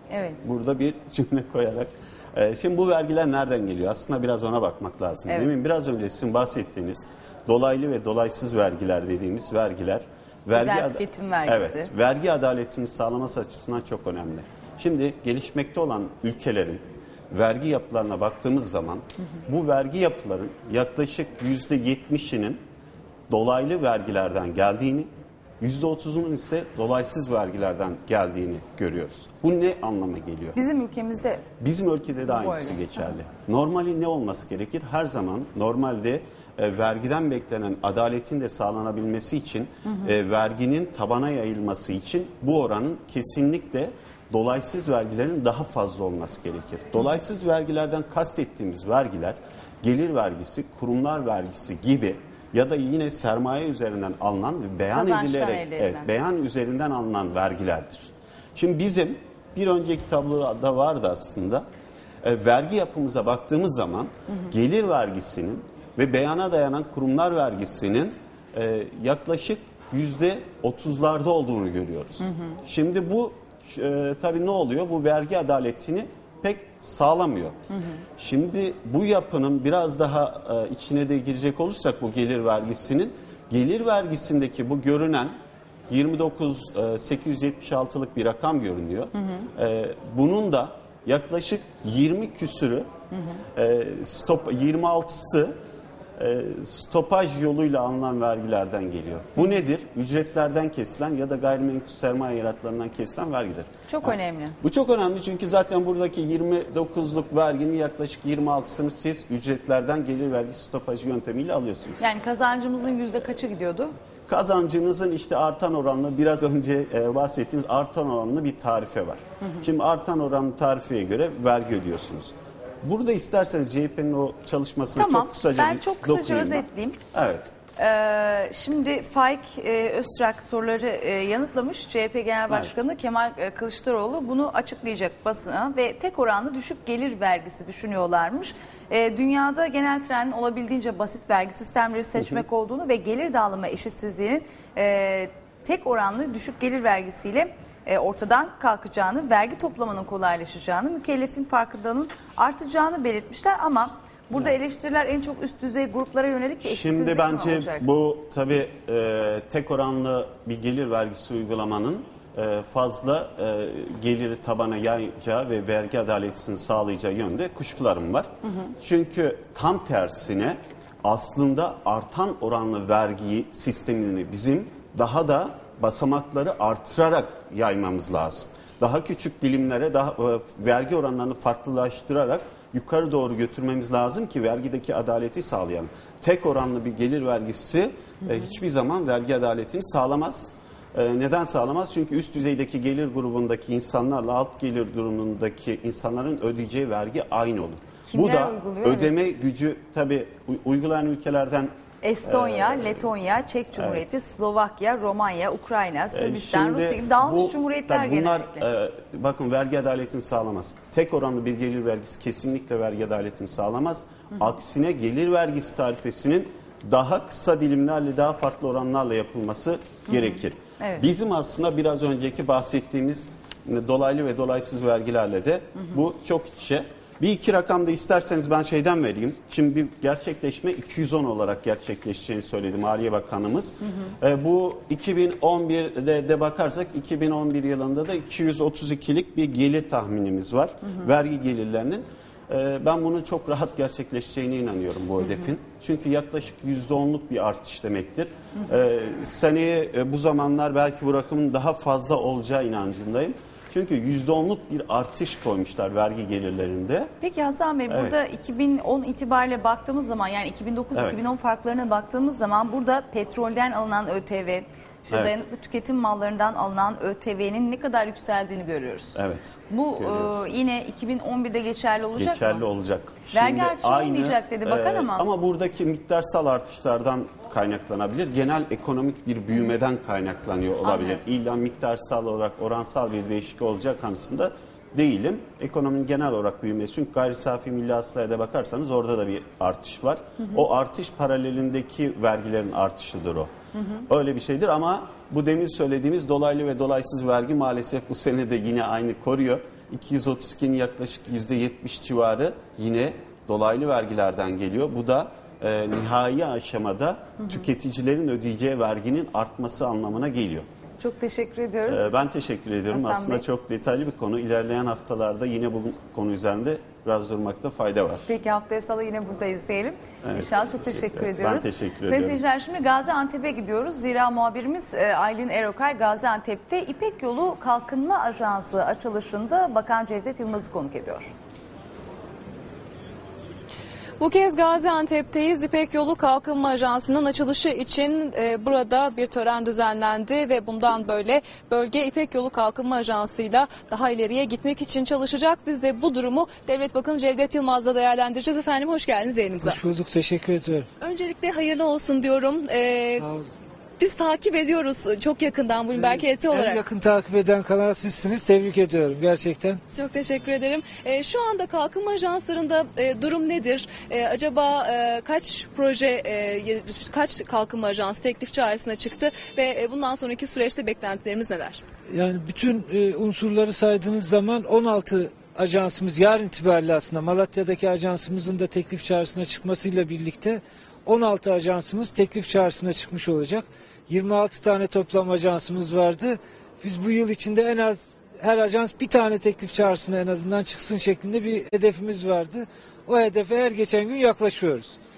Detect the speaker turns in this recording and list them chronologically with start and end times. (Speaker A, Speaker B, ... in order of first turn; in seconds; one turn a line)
Speaker A: 0.1-0.4
Speaker B: 0.4-22.6
Speaker A: 10.5-11.9
Speaker B: 23.3-25.1
Speaker B: 25.6-30.6
Speaker A: 30.6-31.4
Speaker B: 31.6-61.6
Speaker A: 32.3-32.8
Speaker A: 54.9-56.1
Speaker B: 62.2-77.6
Speaker B: 78.2-85.3
Speaker B: 85.9-92.9
Speaker B: 93.6-95.5
Speaker B: 96.2-112.0
Speaker A: 103.9-104.6
Speaker A: 112.0-113.9
Speaker B: 114.3-127.5
Speaker A: 125.0-127.0
Speaker A: 127.8-157.8
Speaker B: 132.5-132.8
Speaker B: 156.6-201.7
Speaker A: 198.1-199.1
Speaker A: 202.0-208.7
Speaker B: 202.2-203.1
Speaker B: 203.7-204.1
Speaker B: 206.1-257.1
Speaker A: 220.8-221.1
Speaker A: 257.2-269.2
Speaker B: 257.9-258.2
Speaker B: 260.9-261.2
Speaker B: 269.2-270.4
Speaker A: 269.7-272.6
Speaker B: 272.2-293.5
Speaker A: 273.3-275.3
Speaker A: 280.8-281.2
Speaker B: 294.1-310.7
Speaker A: 311.0-312.1
Speaker B: 311.9-318.3
Speaker A: 312.9-313.4
Speaker A: 318.3-331.3
Speaker B: 320.2-322.4
Speaker C: 334.2-349.8
Speaker D: 349.6-350.9
Speaker C: 351.0-353.2
Speaker D: 353.2-353.5
Speaker C: 354.0-356.8
Speaker D: 355.9-359.8
Speaker C: 359.9-371.8
Speaker D: 372.1-395.0